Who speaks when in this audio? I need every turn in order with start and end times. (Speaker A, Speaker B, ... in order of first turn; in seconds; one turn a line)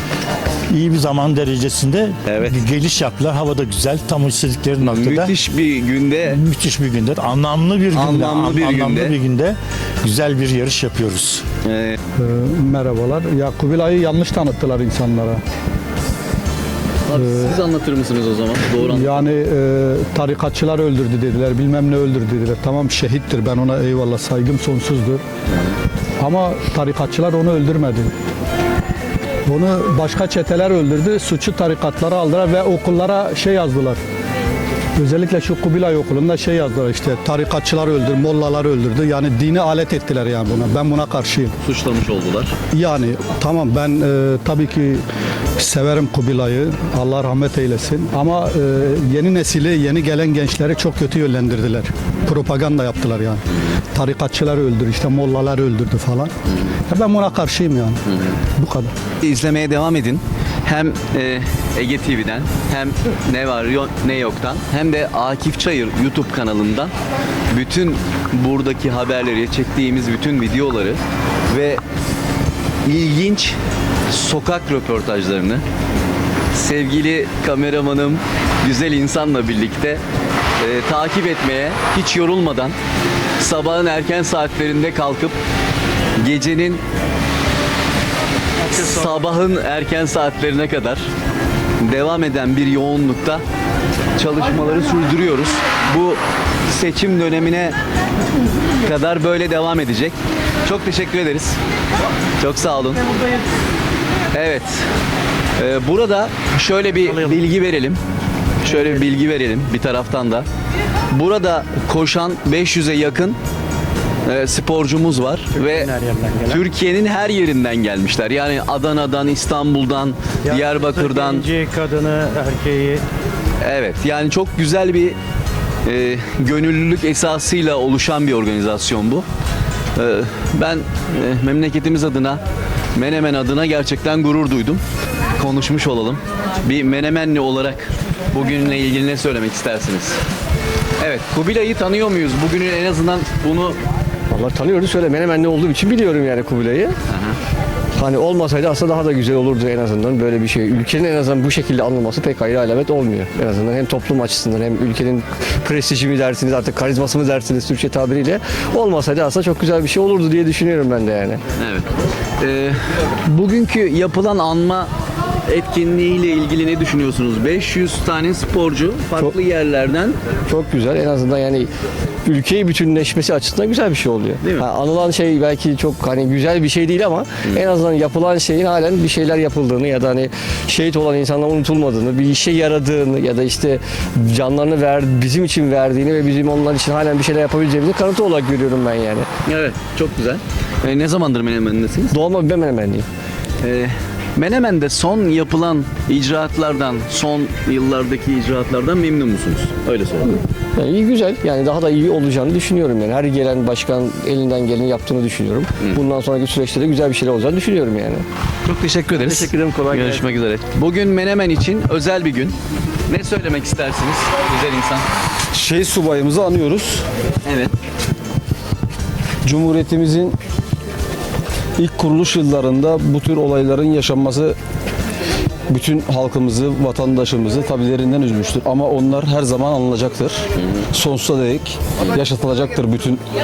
Speaker A: 0.7-5.3
Speaker B: 2.2-2.6
Speaker B: 4.8-6.4
Speaker A: 6.2-11.4
Speaker B: 7.9-9.2
Speaker B: 11.6-12.0
Speaker C: 12.2-15.4
Speaker B: 17.1-19.3
Speaker C: 17.1-17.6
Speaker C: 18.8-25.2
Speaker B: 25.5-25.8
Speaker C: 26.2-28.1
Speaker C: 29.5-34.0
Speaker C: 35.0-41.5
Speaker B: 41.6-42.5
Speaker C: 42.7-45.0
Speaker C: 45.6-56.3
Speaker C: 56.9-58.0
Speaker B: 58.1-58.3
Speaker C: 58.6-58.9
Speaker B: 59.2-66.9
Speaker B: 67.5-71.8
Speaker B: 72.8-73.5
Speaker B: 74.1-75.6
Speaker B: 76.5-80.0
Speaker B: 80.6-82.7
Speaker B: 83.4-85.4
Speaker B: 86.2-86.8
Speaker B: 88.7-91.0
Speaker B: 91.8-93.4
Speaker B: 94.2-97.7
Speaker B: 98.8-101.6
Speaker B: 102.4-103.0
Speaker B: 104.3-104.8
Speaker B: 105.6-108.0
Speaker B: 108.6-110.5
Speaker B: 111.1-113.4
Speaker B: 114.2-121.5
Speaker B: 123.6-125.2
Speaker B: 125.8-129.2
Speaker B: 129.9-132.4
Speaker B: 132.9-134.8
Speaker B: 135.4-140.2
Speaker B: 141.0-143.8
Speaker D: 144.3-146.9
Speaker B: 147.1-147.4
Speaker D: 148.0-161.4
Speaker B: 161.6-161.9
Speaker B: 162.4-164.9
Speaker B: 165.5-170.2
Speaker D: 170.5-171.7
Speaker D: 172.2-189.3
Speaker B: 174.4-174.7
Speaker B: 189.4-192.2
Speaker D: 192.1-193.1
Speaker B: 193.6-200.4
Speaker D: 200.8-208.2
Speaker B: 208.7-212.6
Speaker D: 209.1-210.3
Speaker B: 213.1-215.1
Speaker E: 215.5-217.1
Speaker B: 217.4-217.7
Speaker E: 219.4-220.4
Speaker E: 221.8-224.6
Speaker E: 225.7-233.2
Speaker B: 230.6-230.8